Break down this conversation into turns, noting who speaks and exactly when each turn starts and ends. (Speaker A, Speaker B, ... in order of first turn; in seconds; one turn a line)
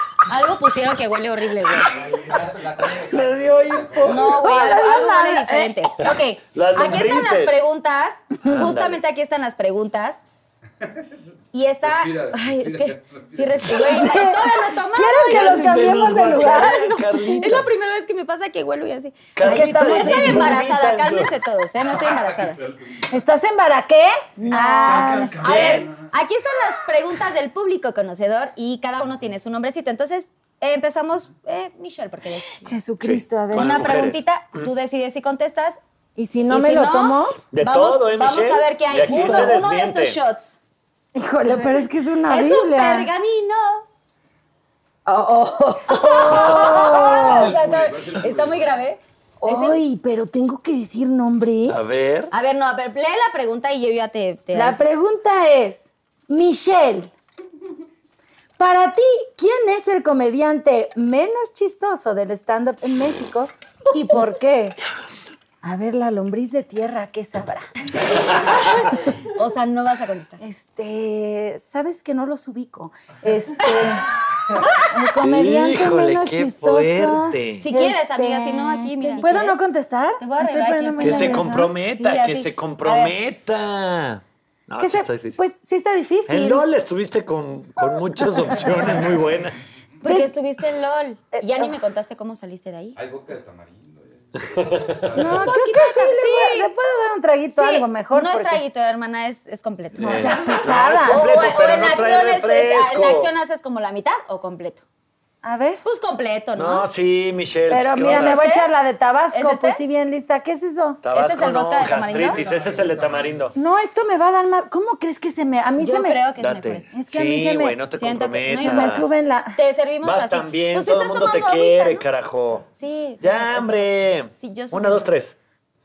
Speaker A: 0.3-2.0
Speaker B: 1.9-4.2
Speaker C: 2.8-4.4
Speaker A: 4.0-10.2
Speaker D: 4.2-5.7
Speaker C: 6.0-7.6
Speaker C: 8.4-9.0
Speaker A: 11.5-22.6
Speaker B: 11.8-14.1
Speaker D: 13.7-17.1
Speaker C: 15.2-17.7
Speaker C: 19.3-21.3
Speaker D: 19.4-20.6
Speaker B: 21.9-23.0
Speaker D: 23.1-25.4
Speaker C: 24.4-25.9
Speaker A: 24.4-32.7
Speaker D: 32.6-33.9
Speaker C: 33.0-34.7
Speaker A: 33.5-35.8
Speaker D: 36.2-37.4
Speaker A: 36.5-40.6
Speaker C: 37.5-40.2
Speaker D: 38.9-39.5
Speaker D: 41.1-43.1
Speaker A: 41.5-43.8
Speaker D: 45.0-47.5
Speaker A: 45.9-49.8
Speaker C: 46.3-47.0
Speaker B: 46.9-48.7
Speaker D: 49.4-51.8
Speaker C: 51.7-52.3
Speaker A: 52.3-54.8
Speaker D: 54.5-57.1
Speaker D: 58.6-64.8
Speaker D: 65.6-67.9
Speaker C: 68.1-68.6
Speaker A: 68.2-70.4
Speaker D: 70.4-74.1
Speaker D: 74.6-81.7
Speaker C: 75.2-77.6
Speaker A: 77.6-79.6
Speaker A: 80.2-83.1
Speaker C: 81.0-85.4
Speaker D: 84.8-86.6
Speaker C: 86.3-89.6
Speaker A: 90.0-93.0
Speaker D: 90.0-90.3
Speaker D: 91.3-91.8
Speaker B: 93.0-95.5
Speaker C: 94.4-95.2
Speaker D: 95.2-98.6
Speaker A: 95.4-96.7
Speaker A: 97.5-104.8
Speaker C: 100.0-103.3
Speaker D: 100.0-101.2
Speaker D: 105.4-105.8
Speaker A: 105.8-106.9
Speaker C: 106.5-108.4
Speaker D: 107.7-111.0
Speaker A: 108.0-108.7
Speaker A: 109.3-109.8
Speaker C: 111.0-113.5
Speaker A: 111.1-112.4
Speaker B: 112.2-113.3
Speaker D: 113.5-116.2
Speaker A: 115.8-116.9
Speaker C: 116.4-119.1
Speaker D: 116.9-117.8
Speaker A: 118.0-122.0
Speaker D: 118.5-119.6
Speaker C: 120.0-122.7
Speaker A: 122.7-125.0
Speaker C: 123.2-125.3